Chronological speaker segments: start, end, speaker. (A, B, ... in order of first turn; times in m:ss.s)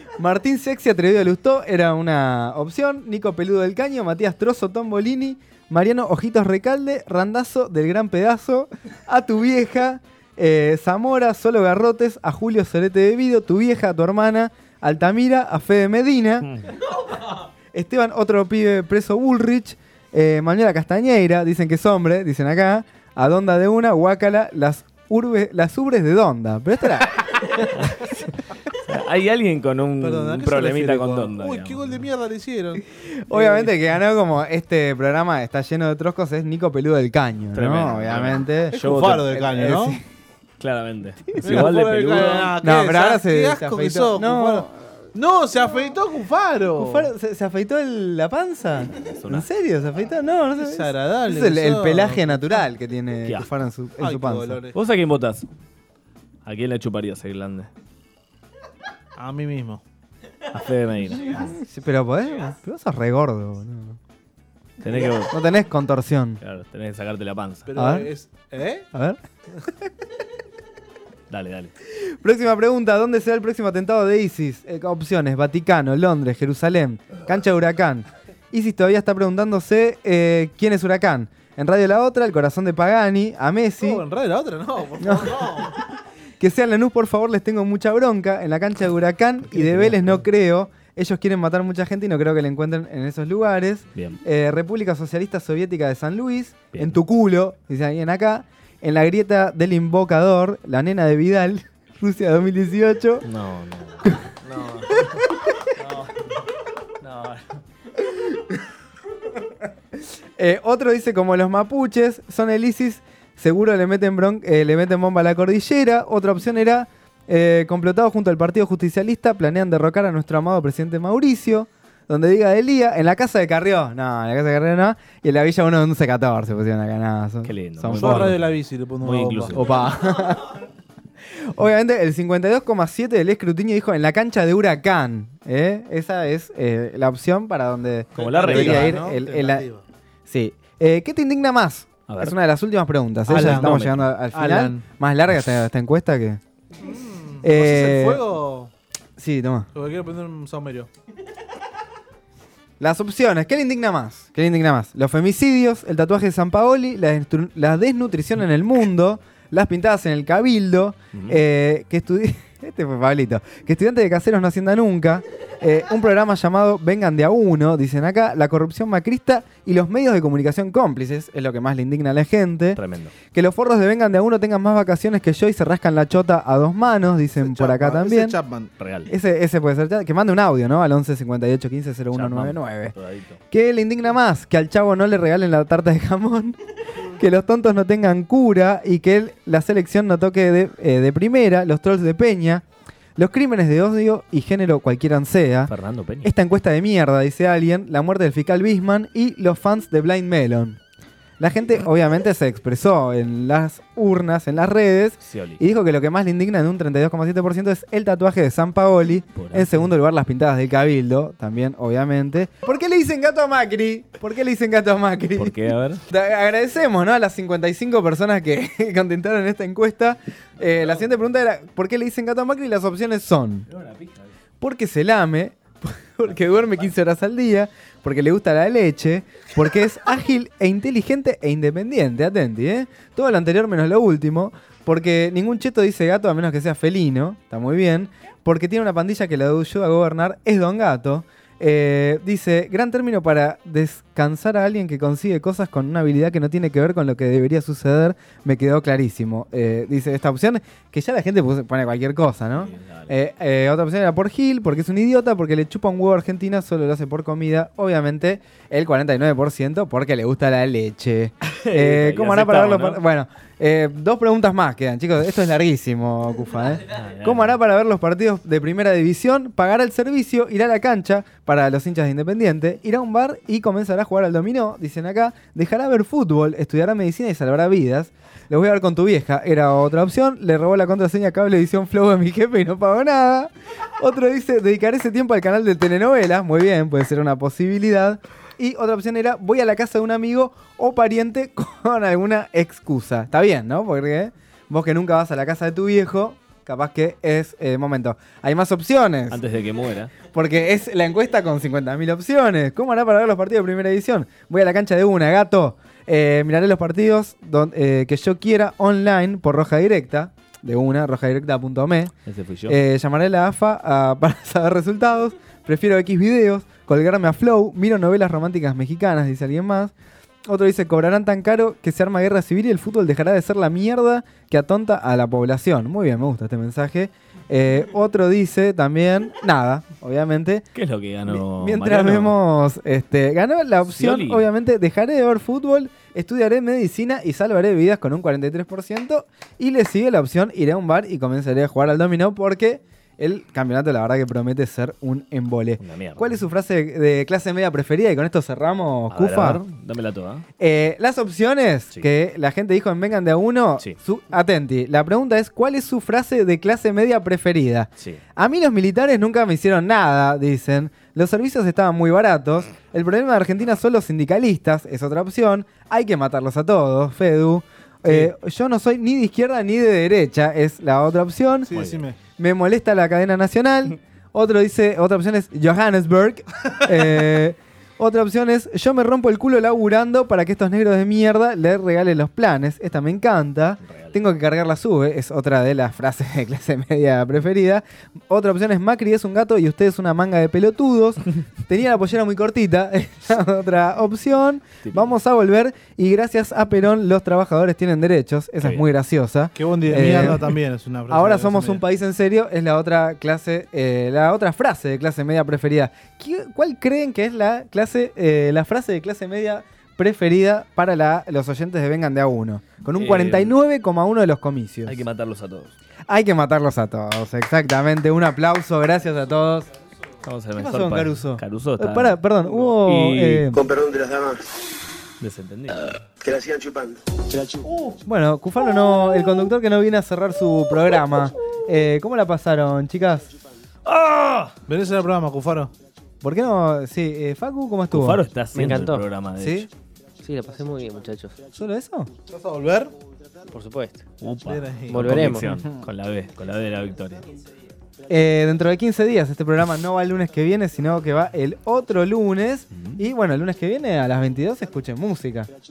0:00.2-0:16.5 A
0:17.7-0:27.3 A
0:27.7-0:32.0 B
0:30.0-0:33.8 C
0:33.3-0:38.8 A
0:37.5-0:39.4 B
0:38.7-0:40.0 C
0:39.4-0:40.0 A
0:40.6-0:42.6 B
0:41.4-0:47.1 C
0:42.6-0:44.8 A
0:46.7-0:54.6 A
0:49.0-0:49.5 B
0:50.6-0:52.6 C
0:53.2-0:53.5 B
0:54.0-0:54.8 C
0:54.7-0:55.5 B
0:56.4-0:57.7 B
0:59.2-0:59.8 C
1:00.5-1:01.5 B
1:01.4-1:04.0 A
1:04.8-1:05.4 B
1:05.3-1:06.4 A
1:06.4-1:07.7 B
1:07.7-1:08.9 C
1:07.8-1:08.1 A
1:08.9-1:09.2 A
1:11.3-1:11.7 B
1:12.2-1:24.0 A
1:23.8-1:25.7 C
1:25.0-1:25.4 A
1:26.4-1:43.2 A
1:29.5-1:30.3 B
1:36.7-1:37.0 B
1:43.2-1:45.2 B
1:45.8-1:46.3 B
1:47.0-1:47.6 B
1:50.4-2:08.3 A
2:07.4-2:08.4 B
2:07.9-2:09.7 C
2:09.0-2:09.9 B
2:09.6-2:10.6 A
2:11.5-2:19.7 A
2:18.2-2:19.8 C
2:18.2-2:19.0 B
2:20.3-2:26.4 A
2:22.1-2:22.4 B
2:23.3-2:24.8 C
2:23.4-2:23.9 B
2:26.8-2:28.7 C
2:27.4-2:28.2 A
2:29.2-2:29.7 A
2:29.7-2:30.9 C
2:32.8-2:58.4 A
2:41.1-2:41.4 B
2:52.8-2:53.1 B
2:57.4-2:58.7 C
2:58.8-2:59.1 B
2:59.1-3:02.9 A
3:02.1-3:03.4 B
3:03.5-3:06.6 A
3:07.2-3:12.6 A
3:13.2-3:15.7 A
3:15.7-3:16.3 B
3:16.2-3:20.8 A
3:21.4-3:35.6 A
3:25.2-3:25.6 B
3:29.3-3:29.9 B
3:35.3-3:36.0 B
3:36.1-3:43.7 A
3:40.6-3:41.2 B
3:43.7-3:44.3 B
3:44.6-4:59.4 A
3:46.2-3:47.0 B
4:12.5-4:13.1 B
4:21.4-4:23.0 B
4:26.9-4:27.6 B
4:59.3-5:00.1 B
5:00.2-5:12.1 A
5:12.3-5:12.8 B
5:12.7-5:19.9 A
5:20.4-5:30.6 A
5:30.7-5:32.4 B
5:31.3-5:49.6 A
5:33.8-5:34.5 B
5:45.8-5:46.5 B
5:49.1-5:50.4 B
5:50.6-6:11.7 A
6:08.0-6:08.3 C
6:11.6-6:12.2 C
6:11.7-6:12.0 B
6:12.4-6:40.5 A
6:23.8-6:24.2 B
6:34.8-6:35.2 B
6:38.6-6:38.9 B
6:39.6-6:41.8 C
6:40.0-6:40.3 B
6:41.1-6:55.0 A
6:53.0-6:53.6 B
6:54.9-6:55.7 B
6:56.1-6:59.7 A
7:00.2-7:03.5 B
7:00.6-7:03.6 A
7:03.5-7:04.4 D
7:05.2-7:05.8 B
7:06.2-7:07.6 D
7:08.0-7:13.3 A
7:13.9-7:14.5 B
7:14.7-7:15.7 C
7:16.2-7:18.2 A
7:17.9-7:19.7 B
7:18.5-7:19.1 E
7:19.4-7:19.7 A
7:20.2-7:21.4 E
7:21.5-7:22.1 A
7:22.3-7:22.9 C
7:23.5-7:24.0 E
7:24.2-7:27.2 B
7:24.4-7:25.2 C
7:24.9-7:25.6 E
7:28.1-7:35.5 A
7:32.7-7:33.0 B